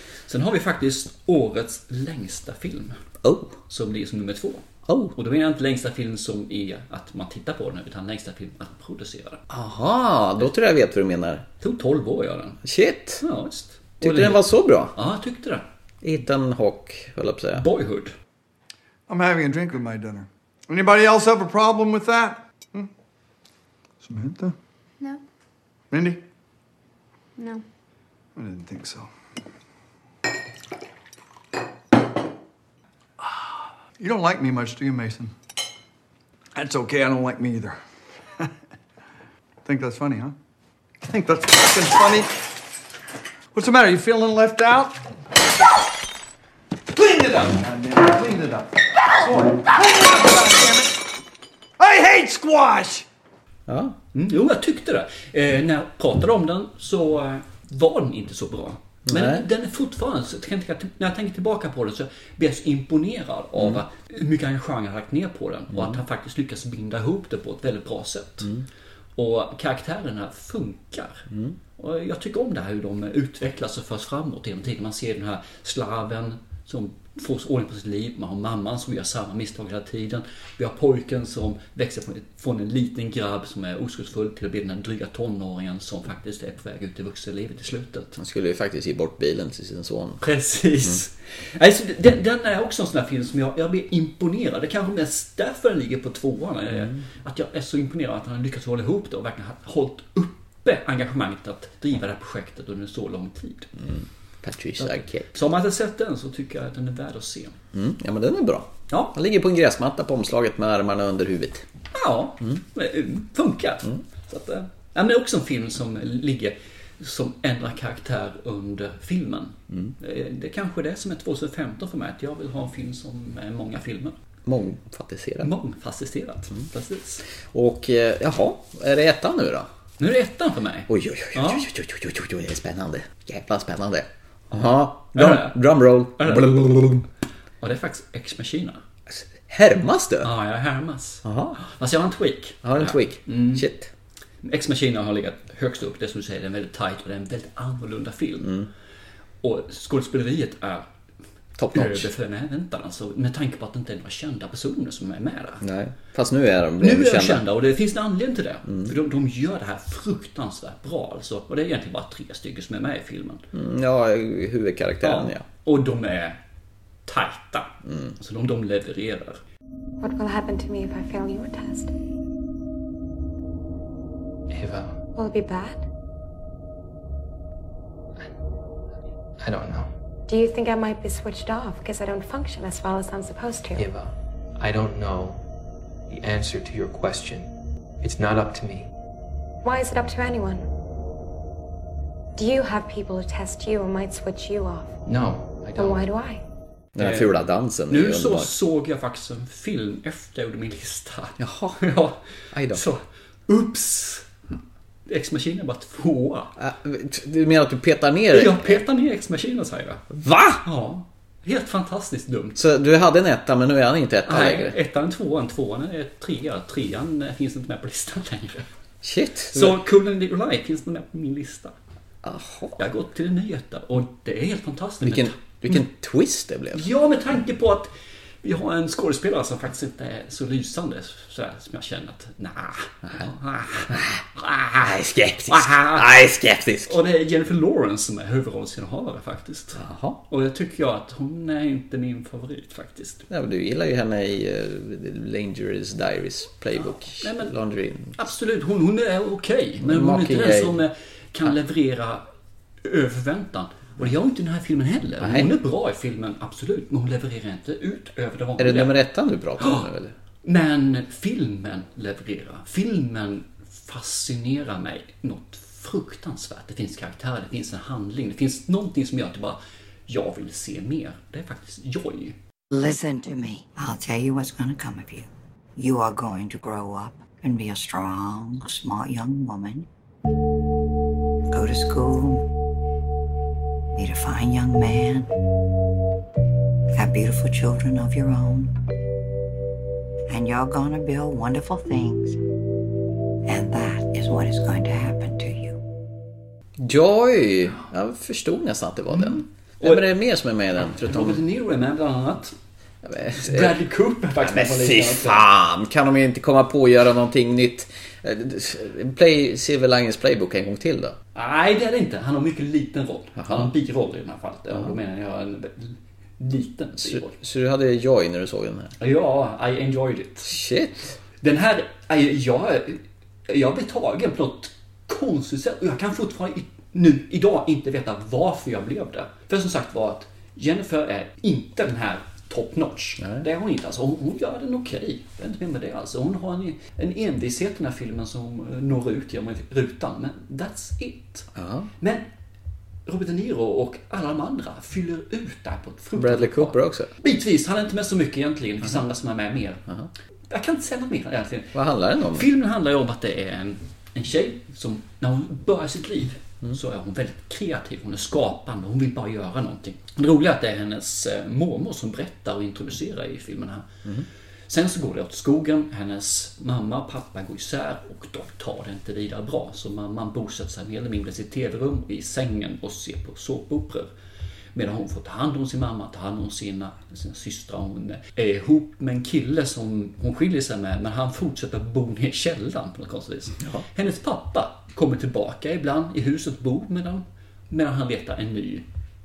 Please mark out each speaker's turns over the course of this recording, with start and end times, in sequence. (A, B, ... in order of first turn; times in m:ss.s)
0:00.3-0:03.0 A
0:03.2-0:03.6 B
0:03.7-0:04.6 A
0:04.9-0:05.1 B
0:05.1-0:09.4 A
0:09.5-0:11.4 B
0:11.6-0:12.6 A
0:12.6-0:13.2 B
0:13.2-0:15.6 A
0:14.0-0:14.9 B
0:16.0-0:17.6 B
0:17.6-0:18.1 A
0:19.1-0:22.9 C
0:24.0-0:24.5 C
0:25.9-0:26.2 C
0:28.4-0:29.1 C
0:33.2-0:35.3 C
0:36.5-0:37.8 C
0:39.6-0:40.3 C
0:41.0-0:42.3 C
0:43.5-0:44.9 C
0:47.0-0:48.7 C
0:49.2-0:50.8 C
0:51.8-0:53.0 C
0:53.7-0:54.0 B
0:54.1-1:08.5 A
0:59.1-0:59.4 B
1:03.6-1:03.8 B
1:05.7-1:06.0 B
1:09.2-1:11.2 A
1:11.3-1:11.6 B
1:11.8-1:28.2 A
1:28.2-1:30.2 B
1:30.2-1:43.7 A
1:43.8-1:45.3 B
1:44.8-1:47.6 A
1:47.7-1:51.6 B
1:51.9-2:04.1 A
2:04.4-2:05.5 B
2:05.4-2:07.2 A
2:07.5-2:09.7 B
2:10.0-2:11.7 A
2:10.9-2:17.0 B
2:15.1-2:15.6 A
2:16.1-2:16.7 A
2:17.6-2:18.8 A
2:19.1-2:20.3 B
2:20.2-2:23.6 A
2:21.2-2:21.6 B
2:22.6-2:23.9 B
2:24.4-2:28.5 A
2:28.4-2:28.7 B
2:29.4-2:30.9 A
2:31.6-2:32.1 B
2:31.7-2:35.6 A
2:35.6-2:37.4 B
2:36.8-2:43.4 A
2:43.5-2:45.4 B
2:45.0-2:46.4 A
2:47.1-2:49.4 A
2:47.8-2:48.1 B
2:50.0-2:51.9 D
2:54.5-2:55.0 E
2:55.2-2:55.8 D
2:59.4-2:59.9 E
3:00.3-3:03.9 D
3:03.8-3:05.4 E
3:06.1-3:07.5 E
3:08.0-3:08.9 E
3:09.6-3:10.6 D
3:12.4-3:15.0 D
3:15.1-3:16.0 E
3:15.8-3:16.4 D
3:17.0-3:18.5 B
3:17.0-3:17.3 A
3:17.9-3:22.2 A
3:21.4-3:21.8 B
3:22.5-3:22.8 B
3:22.7-3:24.3 A
3:25.1-3:26.5 A
3:26.6-3:28.8 B
3:28.3-3:30.0 A
3:30.1-3:30.6 B
3:30.6-3:32.6 A
3:32.6-3:34.7 B
3:34.3-3:38.7 A
3:39.0-3:39.8 B
3:39.5-3:41.7 A
3:42.2-3:42.8 B
3:42.8-3:45.8 A
3:45.0-3:46.9 B
3:46.7-3:47.9 A
3:48.4-3:54.9 A
3:53.9-3:54.2 B
3:54.8-3:57.0 B
3:55.5-3:56.2 A
3:56.8-4:03.2 A
3:59.8-4:00.2 B
4:03.3-4:08.2 B
4:07.2-4:07.5 A
4:08.2-4:12.2 A
4:09.8-4:10.8 B
4:12.8-4:19.0 A
4:15.2-4:15.5 B
4:18.6-4:20.1 B
4:19.6-4:19.9 A
4:20.4-4:32.3 A
4:32.7-4:39.9 F
4:41.5-4:42.4 F
4:44.0-4:45.3 F
4:46.9-4:48.7 F
4:50.3-4:52.4 F
4:53.4-4:55.8 F
4:56.8-5:01.4 B
4:59.1-5:00.1 A
5:00.9-5:02.5 A
5:03.0-5:03.8 B
5:03.3-5:05.4 A
5:04.4-5:11.2 B
5:11.3-5:17.3 A
5:13.4-5:13.7 B
5:14.7-5:15.0 B
5:17.0-5:18.9 B
5:19.0-5:20.5 A
5:20.4-5:21.2 B
5:21.4-5:41.5 A
5:33.2-5:33.4 B
5:41.5-5:41.9 B
5:42.0-5:42.2 A
5:43.0-5:49.8 A
5:46.1-5:47.1 B
5:50.5-5:51.7 A
5:51.7-5:52.4 B
5:52.3-6:04.0 A
6:04.7-6:14.1 A
6:14.7-6:28.8 A
6:23.6-6:23.8 B